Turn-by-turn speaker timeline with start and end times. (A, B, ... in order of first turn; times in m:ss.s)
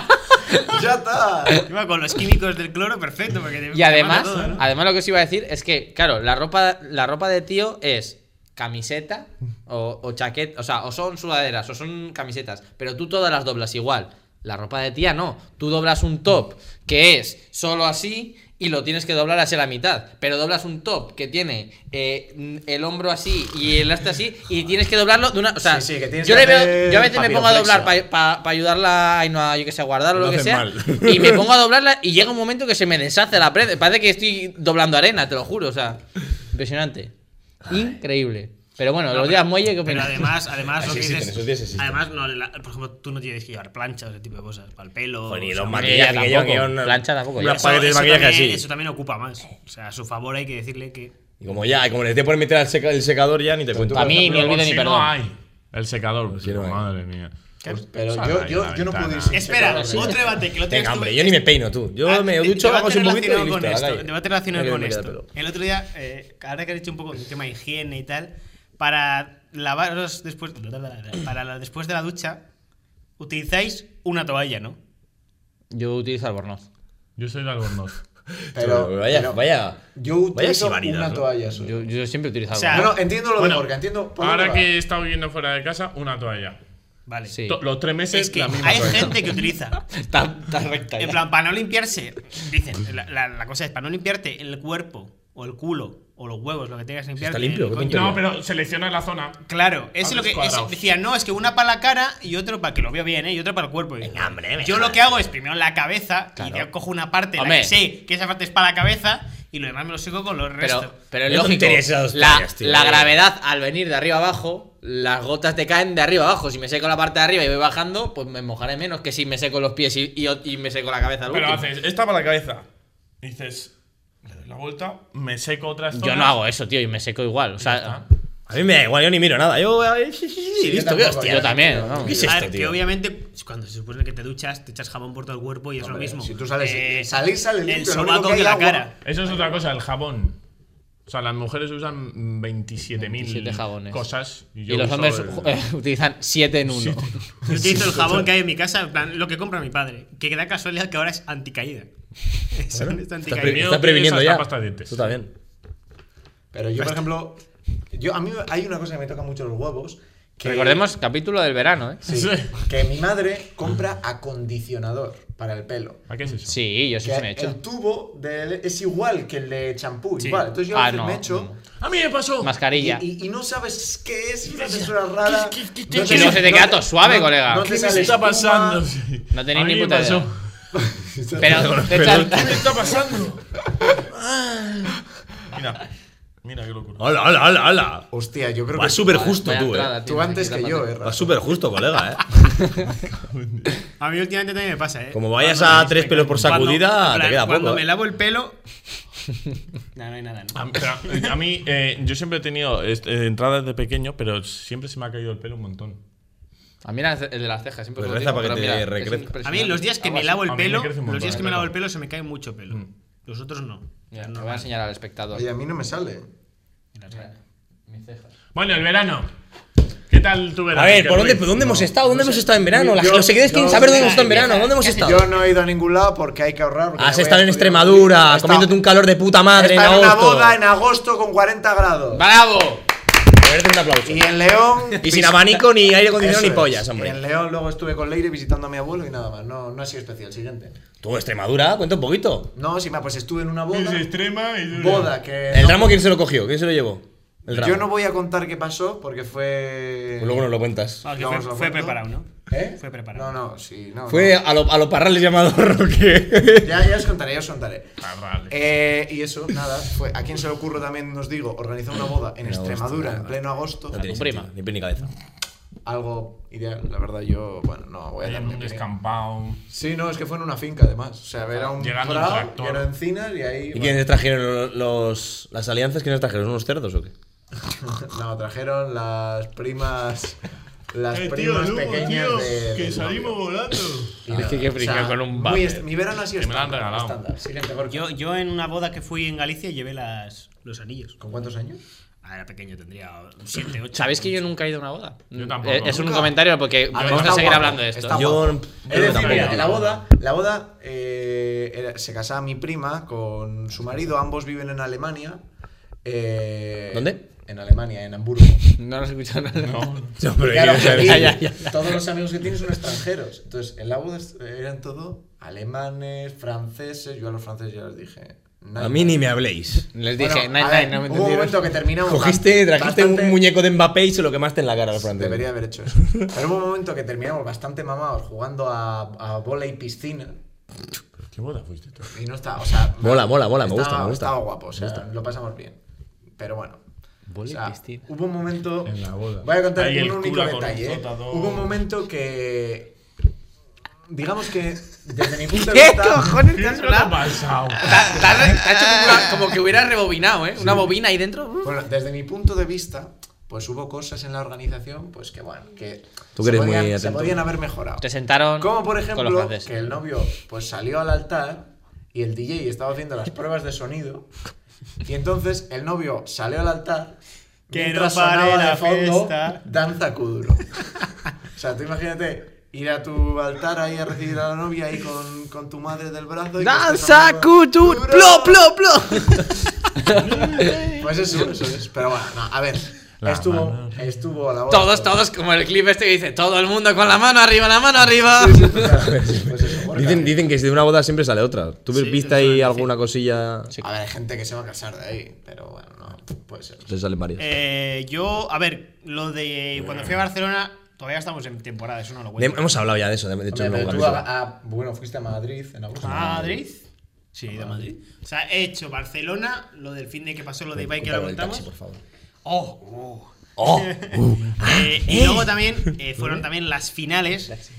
0:00.6-0:01.6 A
0:01.6-0:04.6 B
0:03.7-0:36.0 C
0:25.6-0:27.9 A
0:30.1-0:31.5 D
0:36.5-0:37.1 C
0:37.6-0:38.0 D
0:37.7-0:40.2 C
0:39.1-0:46.1 B
0:40.8-0:42.0 D
0:45.3-0:48.6 D
0:45.8-0:47.6 C
0:47.4-0:51.1 B
0:51.4-0:54.4 D
0:53.7-0:54.4 A
0:53.9-0:55.1 C
0:54.1-0:57.3 E
0:56.3-0:56.8 D
0:57.6-1:00.4 A
0:58.0-0:59.6 E
0:59.3-1:01.4 B
0:59.9-1:05.2 D
1:02.0-1:12.4 B
1:13.2-1:14.8 B
1:15.7-1:16.6 C
1:17.2-1:18.0 E
1:18.4-1:19.8 D
1:18.5-1:19.4 A
1:19.9-1:21.9 A
1:20.3-1:21.2 D
1:21.5-1:22.9 C
1:22.5-1:22.9 B
1:22.7-1:24.7 A
1:23.3-1:26.6 E
1:27.1-1:27.4 B
1:27.3-1:27.6 C
1:27.4-1:29.3 E
1:28.1-1:29.8 B
1:29.9-1:31.2 C
1:31.0-1:38.2 B
1:37.2-1:38.2 D
1:37.9-1:39.4 E
1:39.4-1:50.9 B
1:40.0-1:40.8 E
1:44.0-1:45.3 D
1:47.4-1:47.7 C
1:50.6-2:01.6 C
1:51.3-1:53.1 D
2:01.3-2:02.6 E
2:03.2-2:03.7 E
2:04.2-2:06.4 E
2:05.9-2:08.0 C
2:07.6-2:08.0 E
2:08.5-2:12.8 D
2:10.5-2:12.5 A
2:11.2-2:12.2 C
2:12.1-2:17.1 B
2:15.8-2:18.9 A
2:17.6-2:18.9 B
2:19.0-2:20.4 E
2:21.1-2:25.6 E
2:23.0-2:24.0 C
2:24.7-2:27.1 C
2:26.7-2:27.2 E
2:27.4-2:28.3 A
2:27.5-2:31.9 B
2:32.5-2:33.7 B
2:32.7-2:35.3 D
2:33.3-2:35.0 E
2:36.5-2:40.9 A
2:40.4-2:42.0 C
2:42.0-2:46.0 A
2:42.0-2:42.5 E
2:46.1-2:46.6 E
2:46.5-2:47.6 C
2:47.0-2:51.5 A
2:50.2-2:50.4 B
2:50.7-2:51.6 C
2:51.7-2:52.5 E
2:52.4-2:53.0 C
2:52.7-2:58.8 A
2:54.5-2:56.7 E
2:56.0-2:57.7 C
2:57.6-3:00.4 E
2:59.3-3:00.3 C
3:00.7-3:01.9 A
3:01.4-3:02.7 C
3:01.4-3:02.5 D
3:02.0-3:03.4 E
3:04.0-3:05.0 E
3:05.5-3:05.8 E
3:06.4-3:07.0 E
3:07.0-3:08.1 D
3:08.1-3:09.4 A
3:08.7-3:09.9 D
3:09.1-3:10.9 C
3:10.0-3:11.4 A
3:11.0-3:12.2 D
3:12.8-3:13.8 E
3:14.0-3:18.6 B
3:15.1-3:17.8 D
3:19.9-3:21.3 B
3:20.5-3:26.0 E
3:26.8-3:30.1 C
3:28.0-3:29.4 D
3:29.4-3:34.7 B
3:30.0-3:31.8 E
3:34.1-3:35.4 C
3:35.3-3:36.3 A
3:36.9-3:37.3 B
3:37.9-3:38.3 C
3:38.5-3:39.3 E
3:40.1-3:41.6 E
3:40.7-3:45.2 D
3:41.5-3:48.7 A
3:43.7-3:45.3 B
3:47.0-3:50.6 D
3:49.5-3:52.2 A
3:52.1-3:52.8 C
3:53.4-3:54.2 D
3:54.0-3:55.6 A
3:55.0-3:57.2 D
3:56.1-4:00.8 A
4:01.0-4:02.5 D
4:02.5-4:04.1 A
4:03.7-4:05.1 E
4:04.7-4:06.0 A
4:05.5-4:07.8 D
4:07.5-4:10.5 A
4:10.2-4:11.0 D
4:11.0-4:13.3 B
4:11.0-4:14.4 A
4:14.1-4:16.8 D
4:16.6-4:24.0 A
4:18.0-4:18.6 E
4:22.4-4:23.3 D
4:23.9-4:25.1 D
4:23.9-4:24.5 C
4:25.8-4:28.9 A
4:28.2-4:29.6 E
4:29.7-4:34.0 A
4:31.8-4:32.9 E
4:33.7-4:37.1 D
4:37.6-4:40.4 A
4:40.9-4:43.4 A
4:41.1-4:44.2 E
4:44.2-4:48.1 A
4:44.3-4:45.8 C
4:46.3-4:47.2 E
4:47.9-4:51.2 B
4:51.2-4:51.8 A
4:52.2-4:54.5 B
4:53.9-4:58.2 C
4:55.3-4:56.4 E
4:55.9-4:56.3 A
4:56.9-5:05.4 A
4:56.9-4:57.8 E
4:58.1-4:59.8 D
4:58.8-5:00.0 E
5:06.0-5:08.6 A
5:06.9-5:07.2 D
5:08.8-5:09.9 C
5:09.6-5:10.2 E
5:10.2-5:11.4 D
5:10.4-5:19.2 A
5:10.6-5:12.0 C
5:18.8-5:19.9 D
5:19.9-5:21.6 C
5:20.2-5:23.4 A
5:22.0-5:25.4 D
5:24.9-5:30.4 A
5:31.3-5:32.1 E
5:32.1-5:35.8 A
5:33.0-5:35.0 D
5:36.4-5:36.8 A
5:37.3-5:38.0 C
5:37.4-5:42.9 A
5:38.8-5:41.8 E
5:44.1-5:46.4 A
5:45.5-5:51.7 C
5:46.4-5:48.4 E
5:51.6-5:58.0 A
5:56.4-5:57.4 D
5:58.0-5:59.8 C
5:58.6-6:04.3 A
6:05.0-6:07.2 A
6:07.7-6:10.8 A
6:07.7-6:09.6 B
6:11.6-6:18.6 A
6:16.6-6:20.9 C
6:20.2-6:20.9 E
6:21.0-6:25.2 A
6:23.2-6:24.0 E
6:24.7-6:28.9 C
6:28.3-6:30.4 A
6:29.0-6:33.7 D
6:31.9-6:32.9 B
6:33.8-6:36.9 A
6:36.9-6:37.5 D
6:37.4-6:42.8 B
6:42.4-6:44.2 D
6:43.5-6:46.6 A
6:46.0-6:46.8 B
6:47.3-6:51.7 B
6:47.5-6:47.8 A
6:50.8-6:52.0 D
6:52.4-6:57.5 B
6:53.6-6:55.6 D